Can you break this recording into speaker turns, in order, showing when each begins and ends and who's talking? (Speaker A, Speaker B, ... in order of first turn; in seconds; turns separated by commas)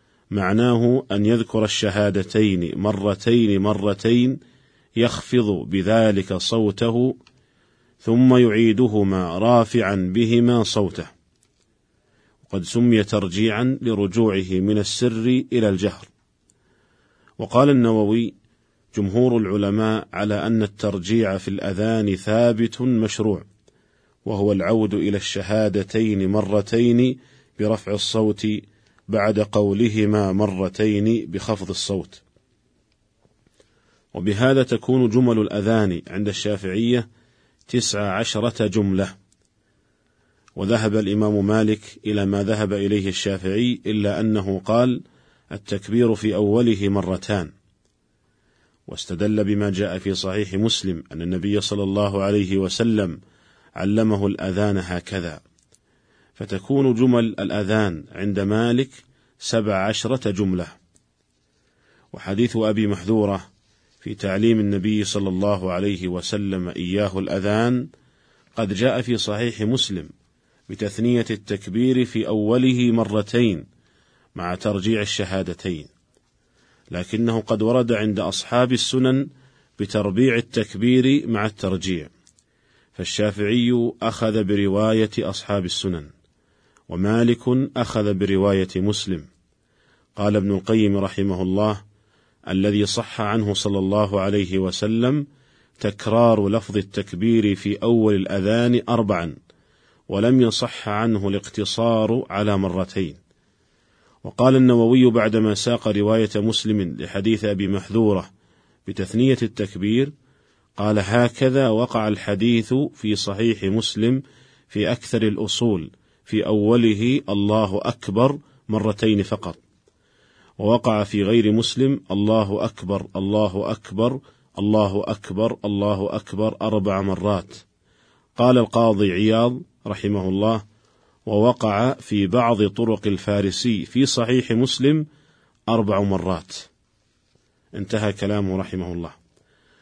Speaker A: 0.3-4.4, Speaker A: 5.0-7.2, Speaker A: 8.0-11.1, Speaker A: 12.5-16.1, Speaker A: 17.4-18.3, Speaker A: 18.9-23.4, Speaker A: 24.2-32.2, Speaker A: 34.1-37.1, Speaker A: 37.7-39.2, Speaker A: 40.6-47.5, Speaker A: 48.9-53.2, Speaker A: 53.8-55.4, Speaker A: 56.4-60.8, Speaker A: 62.1-63.5, Speaker A: 64.0-67.9, Speaker A: 68.6-70.1, Speaker A: 70.7-73.7, Speaker A: 74.4-75.9, Speaker A: 76.9-79.2, Speaker A: 79.8-82.1, Speaker A: 83.0-86.1, Speaker A: 86.9-89.3, Speaker A: 90.2-91.8, Speaker A: 92.5-95.2, Speaker A: 95.8-99.3, Speaker A: 100.1-103.2, Speaker A: 104.2-108.3, Speaker A: 108.9-110.1, Speaker A: 110.8-119.6, Speaker A: 120.6-127.6, Speaker A: 128.4-130.6, Speaker A: 131.3-135.1, Speaker A: 135.7-136.7, Speaker A: 137.7-139.2